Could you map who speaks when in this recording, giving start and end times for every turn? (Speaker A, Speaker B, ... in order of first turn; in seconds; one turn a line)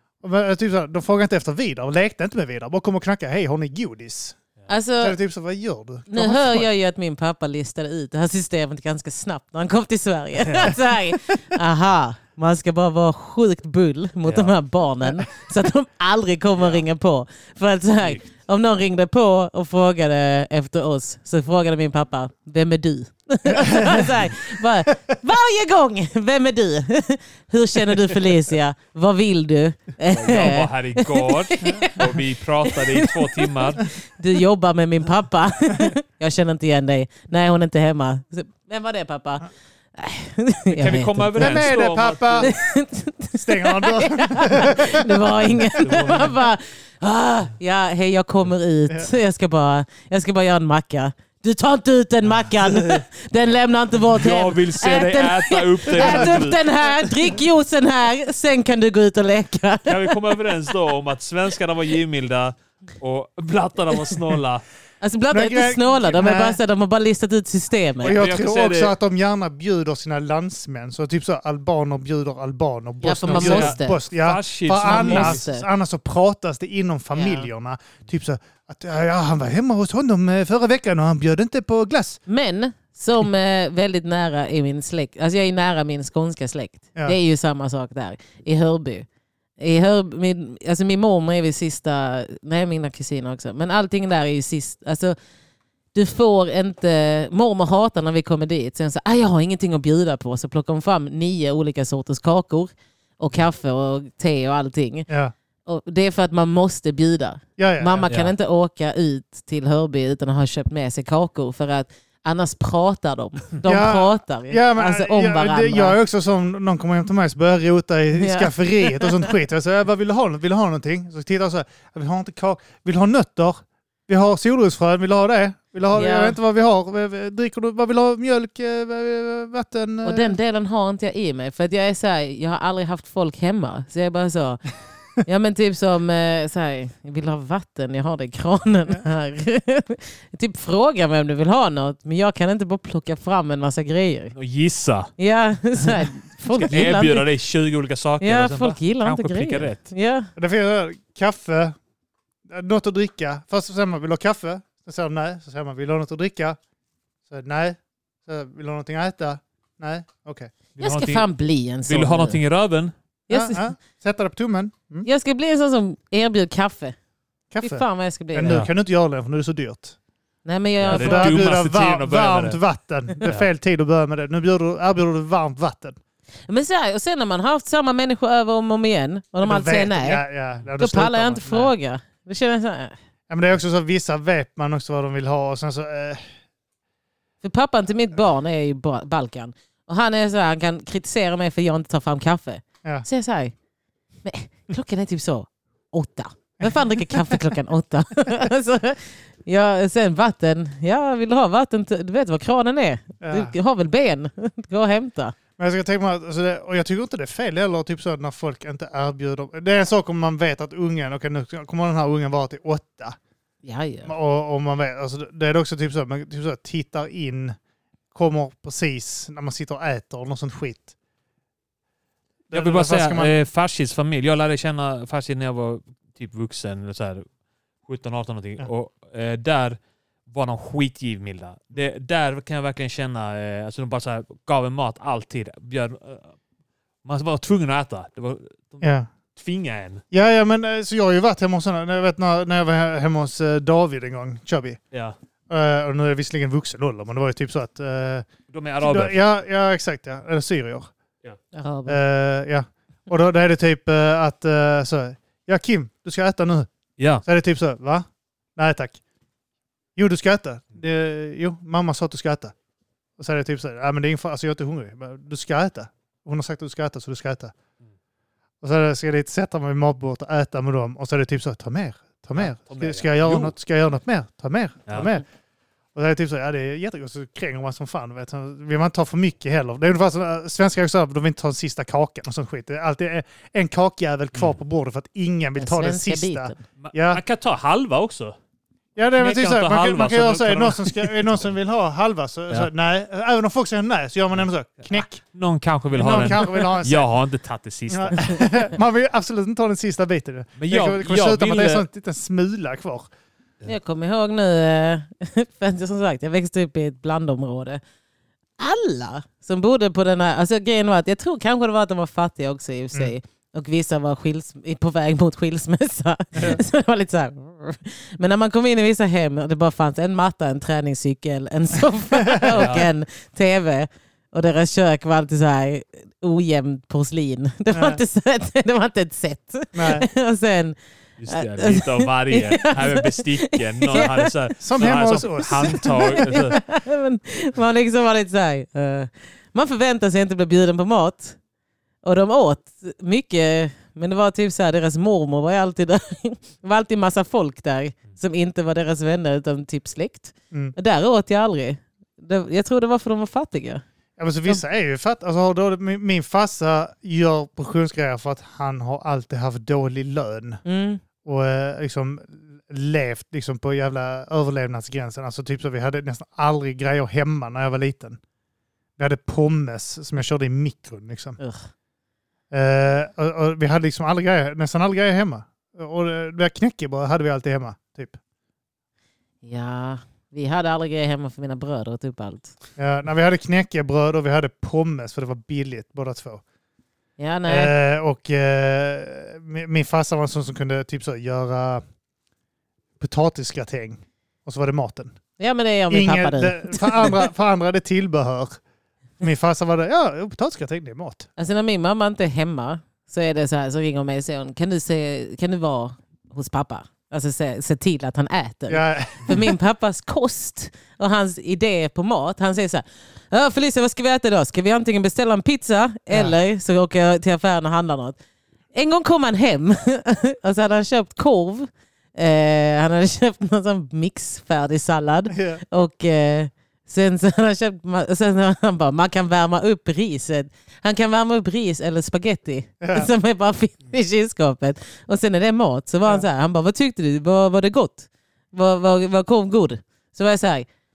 Speaker A: 0.2-4.4
Speaker B: 4.7-5.2
Speaker A: 5.0-6.7
Speaker B: 6.1-33.5
Speaker C: 10.4-10.8
Speaker C: 14.2-14.5
Speaker A: 23.5-24.1
Speaker C: 30.1-33.8
Speaker B: 34.1-41.6
Speaker C: 40.7-42.5
Speaker A: 41.4-42.5
Speaker B: 42.4-60.1
Speaker A: 43.3-46.1
Speaker C: 45.4-46.4
Speaker C: 52.6-53.0
Speaker C: 54.1-56.6
Speaker A: 56.0-56.4
Speaker C: 59.9-64.6
Speaker B: 65.0-68.2
Speaker A: 65.3-66.6
Speaker C: 68.0-68.9
Speaker A: 68.0-82.2
Speaker B: 73.0-74.0
Speaker C: 73.3-75.4
Speaker B: 74.8-75.7
Speaker B: 77.1-77.5
Speaker B: 82.3-89.0
Speaker B: 89.6-95.2
Speaker B: 95.9-105.1
Speaker B: 105.6-116.0
Speaker A: 107.6-108.0
Speaker C: 108.1-108.3
Speaker A: 113.6-130.4
Speaker B: 118.1-119.3
Speaker B: 125.9-126.4
Speaker B: 130.0-134.6
Speaker B: 135.2-144.3
Speaker C: 144.3-145.1
Speaker B: 145.2-147.2
Speaker C: 146.6-149.8
Speaker B: 148.2-150.3
Speaker A: 150.4-151.8
Speaker A: 152.5-156.6
Speaker A: 157.3-160.5
Speaker C: 160.8-161.2
Speaker B: 160.8-162.4
Speaker C: 161.9-162.9
Speaker B: 163.3-163.6
Speaker A: 163.3-165.1
Speaker B: 165.0-166.9
Speaker A: 167.5-169.9
Speaker B: 167.6-168.7
Speaker B: 170.4-171.4
Speaker C: 170.8-172.6
Speaker A: 170.9-175.9
Speaker B: 176.5-180.2
Speaker A: 179.4-181.7
Speaker B: 180.8-182.9
Speaker A: 183.3-186.2
Speaker B: 187.4-193.5
Speaker B: 194.2-205.3
Speaker A: 203.2-203.5
Speaker A: 205.6-213.2
Speaker B: 213.6-214.1
Speaker A: 214.0-217.6
Speaker A: 218.1-220.9
Speaker A: 222.5-223.4
Speaker C: 222.5-227.2
Speaker C: 227.8-236.3
Speaker C: 237.0-240.0
Speaker A: 238.8-239.1
Speaker A: 240.1-244.8
Speaker A: 245.5-248.3
Speaker C: 248.5-249.2
Speaker A: 248.8-250.9
Speaker B: 251.5-252.0
Speaker A: 251.9-256.7
Speaker C: 257.0-257.2
Speaker A: 257.2-258.1
Speaker A: 258.6-259.0
Speaker A: 259.9-262.5
Speaker A: 263.2-267.5
Speaker A: 268.6-275.2
Speaker C: 272.4-273.5
Speaker A: 275.9-287.2
Speaker B: 285.6-286.6
Speaker C: 286.8-288.4
Speaker A: 288.9-295.2
Speaker C: 289.2-291.4
Speaker C: 294.9-298.4
Speaker A: 295.9-297.1
Speaker A: 297.9-303.1
Speaker C: 300.6-301.8
Speaker B: 303.6-307.8
Speaker B: 308.6-330.8
Speaker A: 316.4-316.6
Speaker A: 322.2-322.8
Speaker C: 322.5-322.9
Speaker A: 327.7-328.0
Speaker A: 329.7-330.1
Speaker C: 331.2-336.6
Speaker B: 331.3-334.3
Speaker A: 334.6-336.6
Speaker B: 335.6-341.4
Speaker B: 342.0-353.8
Speaker A: 354.2-360.6
Speaker B: 360.6-361.0
Speaker A: 361.2-368.2
Speaker A: 369.0-371.4
Speaker B: 371.4-371.7
Speaker A: 372.5-378.2
Speaker B: 379.4-382.5
Speaker A: 382.8-386.4
Speaker B: 387.2-387.7
Speaker A: 387.5-391.8
Speaker A: 393.0-395.1
Speaker B: 395.4-397.2
Speaker A: 395.9-398.6
Speaker A: 399.2-401.3
Speaker B: 401.4-418.2
Speaker A: 408.7-409.5
Speaker A: 416.1-416.3
Speaker B: 418.7-440.7
Speaker A: 425.3-425.6
Speaker A: 432.8-433.1